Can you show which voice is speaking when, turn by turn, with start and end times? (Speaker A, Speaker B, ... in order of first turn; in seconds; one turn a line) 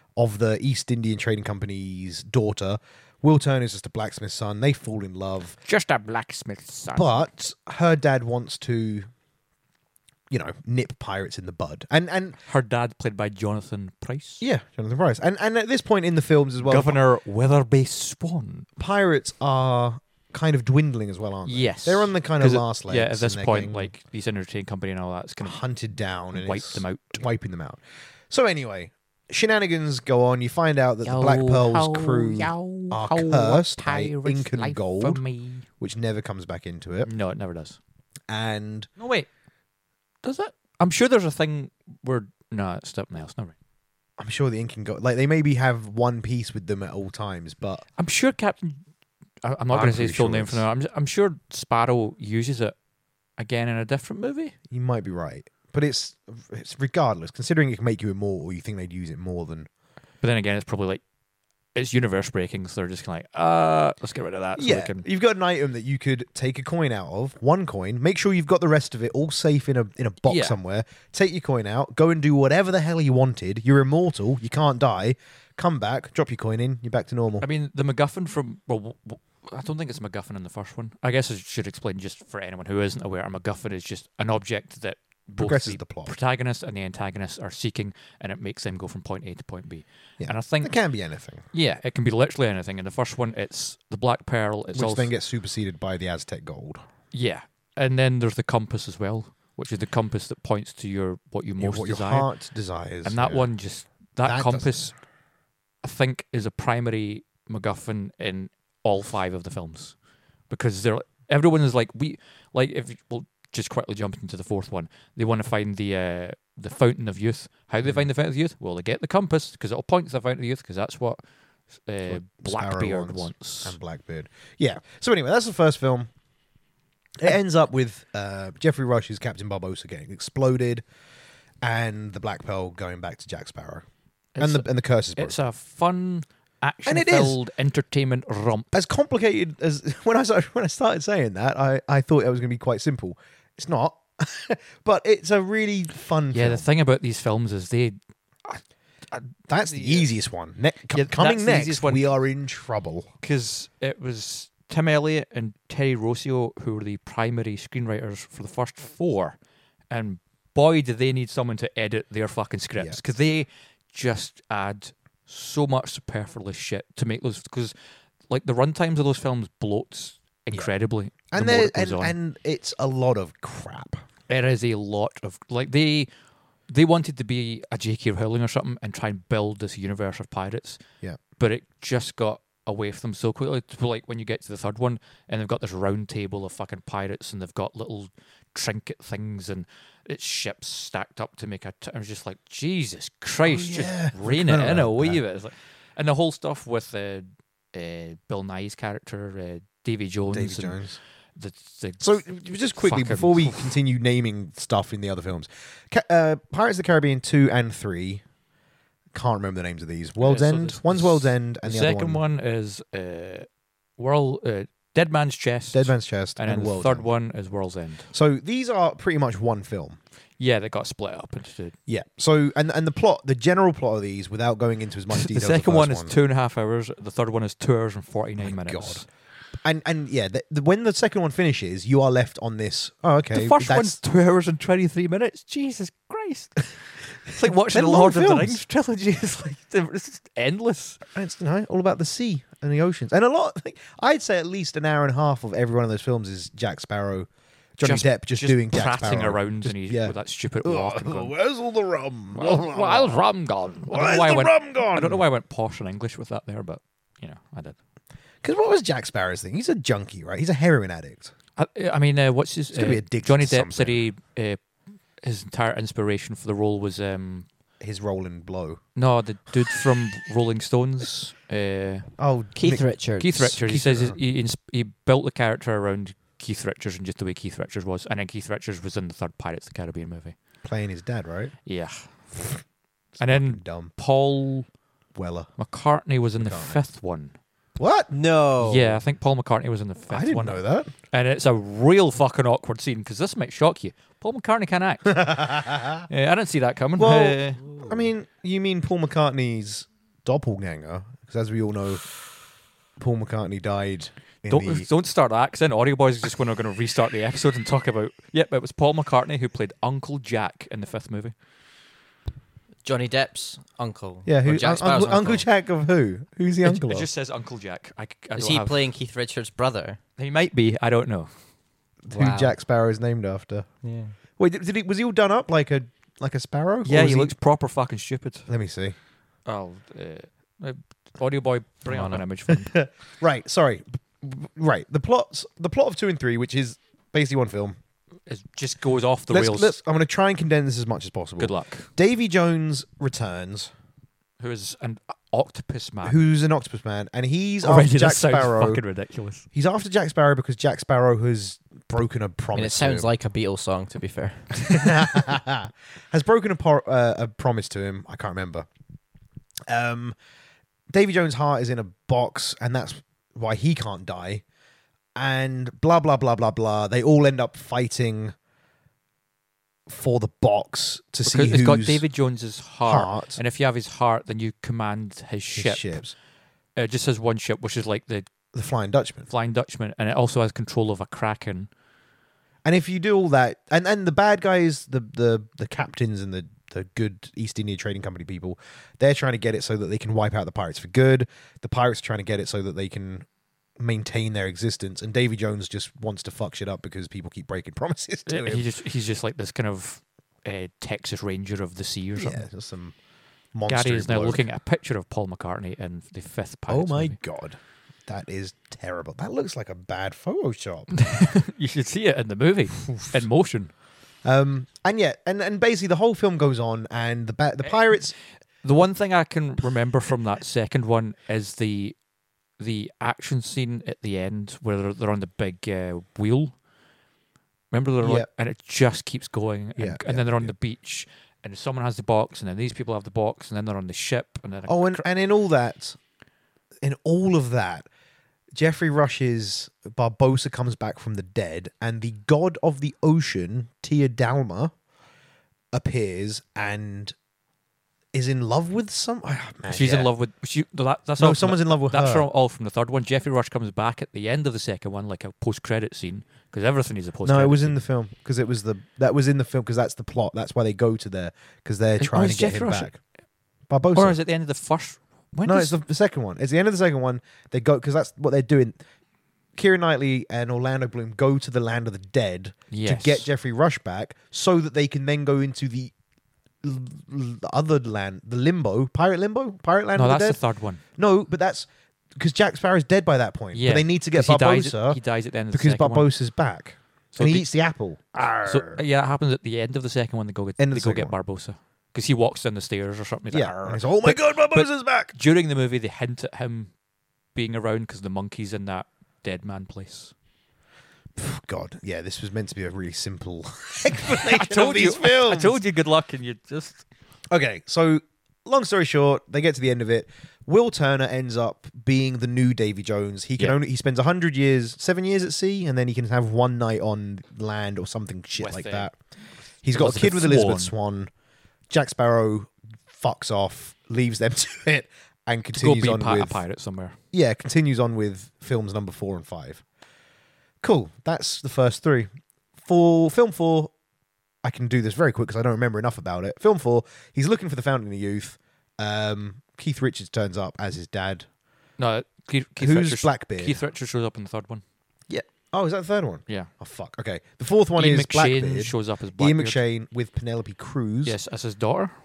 Speaker A: 0.2-5.6
Speaker B: 5.7-7.2
Speaker A: 6.9-9.1
Speaker A: 10.3-12.4
Speaker B: 12.5-14.4
Speaker A: 14.4-17.0
Speaker B: 16.6-18.7
Speaker A: 18.8-23.9
Speaker B: 21.5-25.6
Speaker A: 25.4-35.2
Speaker B: 26.3-27.2
Speaker B: 31.1-35.7
Speaker A: 35.8-37.1
Speaker B: 37.0-37.8
Speaker A: 38.3-38.9
Speaker B: 39.0-39.3
Speaker B: 40.2-43.5
Speaker A: 44.2-47.8
Speaker B: 48.0-48.8
Speaker B: 49.4-52.7
Speaker A: 49.7-50.6
Speaker B: 53.4-54.5
Speaker A: 54.7-59.7
Speaker B: 60.2-61.0
Speaker B: 61.8-65.0
Speaker A: 64.6-77.5
Speaker B: 70.3-70.6
Speaker B: 77.4-90.8
Speaker A: 85.3-86.1
Speaker A: 90.2-91.4
Speaker B: 91.5-95.1
Speaker A: 94.7-96.8
Speaker B: 97.1-102.3
Speaker A: 101.6-103.5
Speaker B: 103.0-104.9
Speaker A: 104.2-104.8
Speaker B: 105.8-110.0
Speaker B: 110.5-121.2
Speaker B: 121.9-123.8
Speaker A: 122.1-126.1
Speaker A: 127.2-130.8
Speaker A: 131.6-133.8
Speaker B: 134.3-134.7
Speaker A: 134.4-135.4
Speaker B: 135.2-138.7
Speaker A: 136.8-137.4
Speaker A: 138.7-146.7
Speaker B: 146.3-150.1
Speaker A: 149.5-153.1
Speaker B: 150.9-152.1
Speaker B: 153.2-159.4
Speaker B: 159.9-167.7
Speaker B: 168.3-172.2
Speaker A: 171.3-174.0
Speaker B: 174.3-176.1
Speaker B: 176.7-180.8
Speaker B: 181.4-200.8
Speaker A: 193.4-195.2
Speaker A: 200.3-201.0
Speaker B: 201.4-203.8
Speaker A: 202.0-208.2
Speaker A: 209.1-212.2
Speaker B: 210.2-213.5
Speaker B: 214.0-218.1
Speaker A: 215.7-217.1
Speaker A: 218.1-220.0
Speaker B: 220.4-221.8
Speaker A: 221.9-226.2
Speaker B: 225.1-229.1
Speaker A: 228.4-229.1
Speaker A: 229.6-234.0
Speaker B: 233.3-236.7
Speaker B: 237.2-241.0
Speaker A: 237.4-238.6
Speaker A: 241.1-253.2
Speaker B: 247.8-251.3
Speaker B: 252.3-257.8
Speaker A: 253.9-255.2
Speaker A: 258.4-261.3
Speaker B: 261.6-264.6
Speaker A: 262.7-264.0
Speaker B: 265.2-267.5
Speaker A: 267.8-268.8
Speaker B: 269.0-272.1
Speaker A: 272.2-274.2
Speaker C: 272.6-273.4
Speaker B: 273.2-280.4
Speaker A: 280.6-281.5
Speaker B: 281.7-282.1
Speaker A: 283.2-283.9
Speaker B: 283.2-284.7
Speaker A: 285.1-285.5
Speaker B: 285.6-287.4
Speaker A: 286.4-286.8
Speaker A: 287.8-288.1
Speaker C: 288.1-289.0
Speaker B: 288.6-290.6
Speaker A: 290.1-290.9
Speaker B: 291.1-297.6
Speaker A: 295.1-296.1
Speaker A: 297.0-302.0
Speaker A: 303.0-304.9
Speaker B: 304.5-311.3
Speaker C: 312.8-315.5
Speaker A: 314.3-317.1
Speaker B: 316.6-318.8
Speaker C: 318.4-320.0
Speaker B: 320.2-321.3
Speaker A: 322.0-323.7
Speaker C: 322.1-322.6
Speaker C: 323.8-324.1
Speaker A: 324.4-327.4
Speaker B: 326.9-328.5
Speaker A: 328.5-329.0
Speaker B: 329.5-332.8
Speaker C: 331.9-332.2
Speaker A: 332.5-337.8
Speaker B: 338.3-339.8
Speaker A: 339.3-343.7
Speaker B: 341.4-341.9
Speaker B: 344.4-346.2
Speaker A: 346.0-348.8
Speaker B: 347.6-349.5
Speaker A: 349.5-353.1
Speaker C: 352.6-355.2
Speaker A: 354.6-358.7
Speaker A: 359.7-360.1
Speaker A: 360.9-364.4
Speaker A: 365.2-368.4
Speaker A: 369.9-372.0
Speaker B: 371.3-376.0
Speaker A: 372.9-373.4
Speaker A: 375.6-376.1
Speaker B: 376.8-378.3
Speaker A: 378.5-379.3
Speaker B: 379.3-381.7
Speaker A: 382.6-393.3
Speaker A: 393.8-398.7
Speaker B: 398.3-402.5
Speaker A: 402.2-402.9
Speaker A: 403.5-404.4
Speaker B: 403.7-407.2
Speaker A: 406.7-410.9
Speaker B: 410.9-413.7
Speaker A: 414.2-418.1
Speaker B: 417.7-418.0
Speaker B: 418.6-422.0
Speaker B: 422.6-426.5
Speaker B: 427.7-435.1
Speaker A: 428.0-428.3
Speaker A: 429.8-430.5
Speaker A: 434.7-436.0
Speaker A: 436.8-437.9
Speaker A: 438.6-444.7
Speaker A: 445.7-447.1
Speaker A: 448.1-450.1
Speaker B: 449.7-457.8
Speaker A: 451.2-452.3
Speaker A: 457.2-463.0
Speaker B: 462.0-462.9
Speaker A: 463.7-464.2
Speaker B: 463.9-465.8
Speaker A: 465.5-468.8
Speaker A: 469.6-475.9
Speaker B: 472.7-473.3
Speaker A: 476.6-480.4
Speaker B: 480.0-480.8
Speaker A: 481.0-485.0
Speaker B: 483.5-486.1
Speaker A: 485.5-488.8
Speaker B: 487.1-487.5
Speaker B: 488.4-496.7
Speaker A: 490.6-491.1
Speaker A: 493.3-495.1
Speaker B: 497.4-500.1
Speaker A: 501.2-505.6
Speaker B: 504.1-506.8
Speaker A: 507.3-518.9
Speaker B: 518.4-518.9
Speaker A: 519.6-521.1
Speaker B: 519.7-520.7
Speaker A: 521.7-526.4
Speaker B: 525.6-527.0
Speaker A: 527.1-529.6
Speaker A: 530.6-532.1
Speaker A: 532.6-533.7
Speaker A: 534.4-541.3
Speaker B: 541.8-544.6
Speaker A: 542.6-543.6
Speaker A: 545.1-551.2
Speaker B: 547.8-549.6
Speaker B: 551.0-551.9